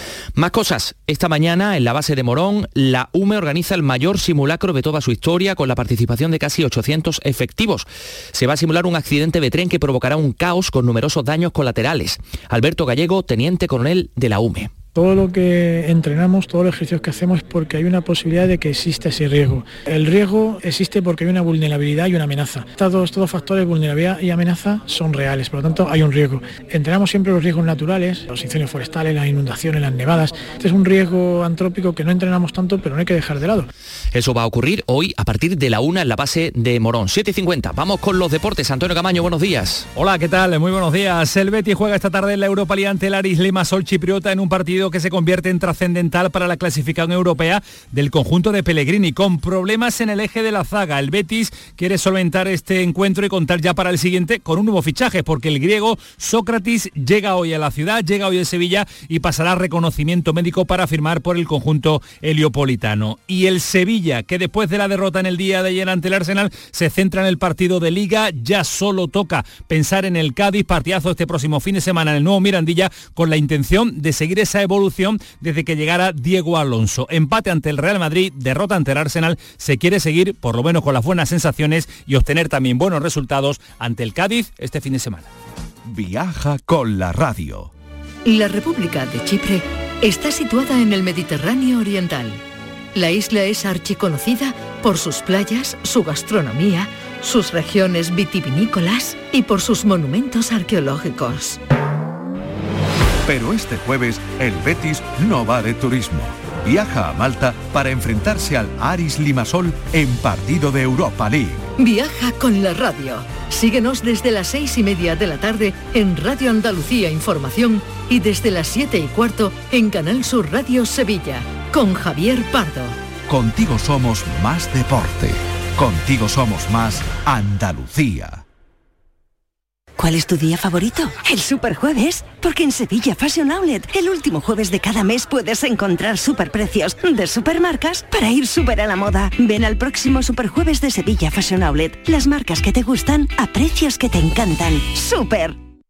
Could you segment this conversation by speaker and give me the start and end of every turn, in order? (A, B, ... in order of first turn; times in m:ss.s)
0:00.4-0:14.7 A
0:15.0-0:33.7 B
0:34.1-0:39.9 A
0:40.0-1:25.2 C
1:25.9-1:27.7 D
1:28.2-1:32.4 E
1:33.0-1:41.6 E
1:43.2-1:51.6 D
1:51.8-2:03.0 E
2:03.3-2:08.4 D
2:10.3-2:10.6 F
2:11.2-2:19.1 F
2:20.8-2:21.6 F
2:22.2-2:24.8 F